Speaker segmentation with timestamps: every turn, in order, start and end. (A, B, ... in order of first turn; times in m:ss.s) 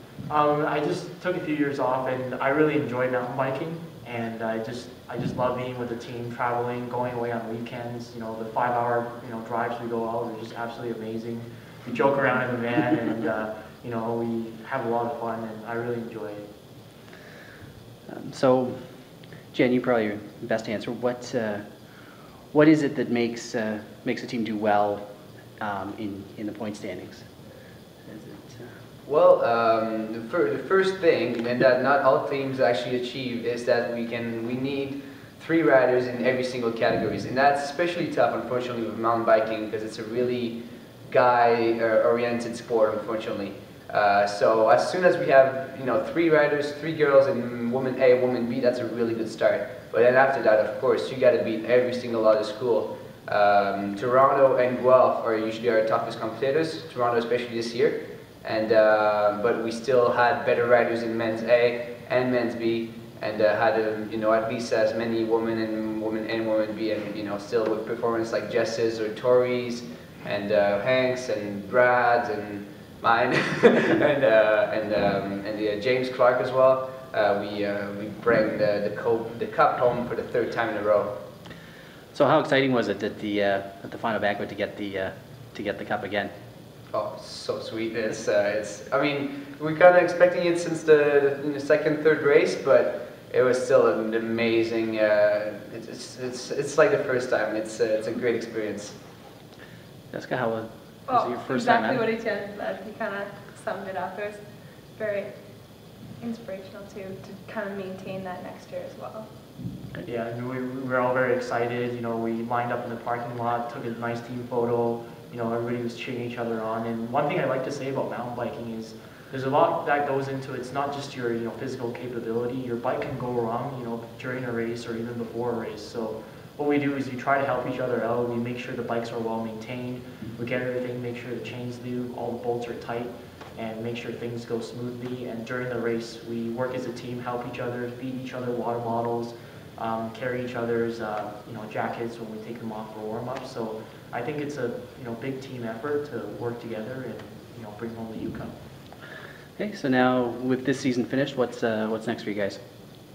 0:00.3-0:16.5 A
0:18.1-0:18.8 B
0:19.5-0:21.6 B
0:22.5-0:25.0 B
0:25.6-0:27.3 B
0:28.0-0:28.7 B
0:29.0-1:21.2 C
1:22.1-1:26.3 B
1:26.9-1:39.0 C
1:40.1-1:42.0 B
1:41.0-1:44.4 D
1:44.9-1:45.4 D
1:46.2-1:49.3 D
1:50.0-2:28.6 A
2:29.6-2:32.6 B